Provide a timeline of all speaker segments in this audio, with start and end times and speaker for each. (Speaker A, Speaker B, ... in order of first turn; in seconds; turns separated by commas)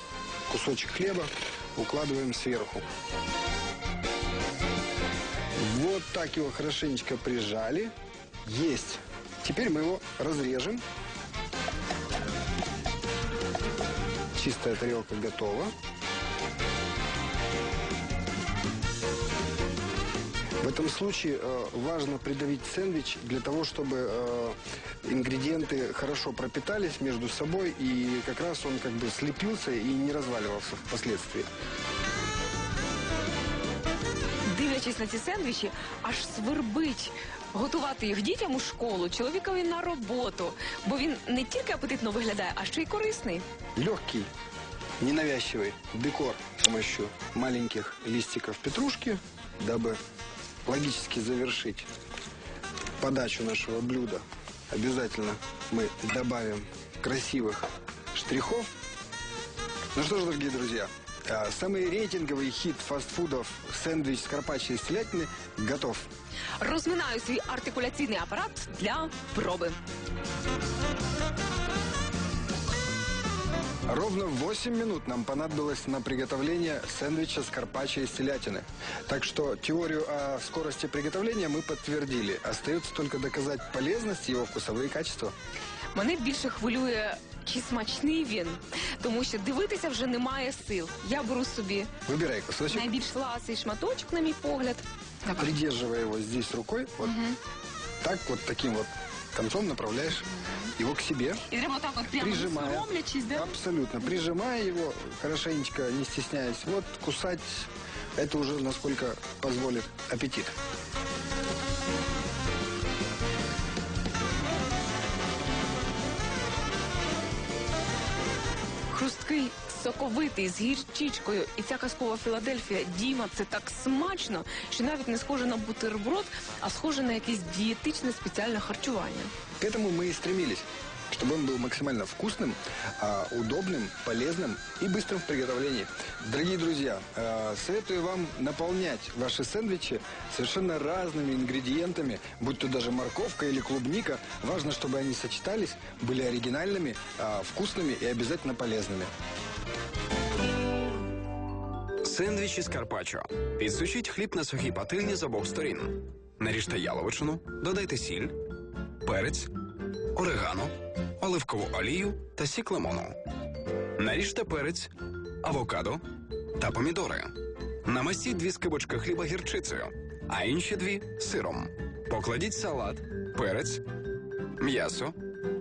Speaker A: 0.5-2.8, Speaker A: 5.6-7.9, Speaker A: 8.4-10.8, Speaker A: 14.3-15.7, Speaker A: 20.6-31.5, Speaker B: 34.5-43.4, Speaker A: 43.8-44.3, Speaker A: 45.0-50.0, Speaker A: 50.6-51.9, Speaker A: 53.0-58.7, Speaker A: 59.9-66.1, Speaker B: 66.6-69.8, Speaker A: 73.9-85.3, Speaker B: 85.9-91.9, Speaker A: 92.0-92.9, Speaker B: 92.7-95.5, Speaker A: 95.3-97.2, Speaker B: 97.0-97.4, Speaker A: 98.0-101.4, Speaker B: 101.5-103.5, Speaker A: 102.1-110.5, Speaker B: 118.9-129.3, Speaker A: 129.6-149.1, Speaker C: 152.0-158.4, Speaker C: 159.0-159.5, Speaker C: 160.1-163.2, Speaker C: 164.0-166.0, Speaker C: 166.6-173.8, Speaker C: 174.6-175.2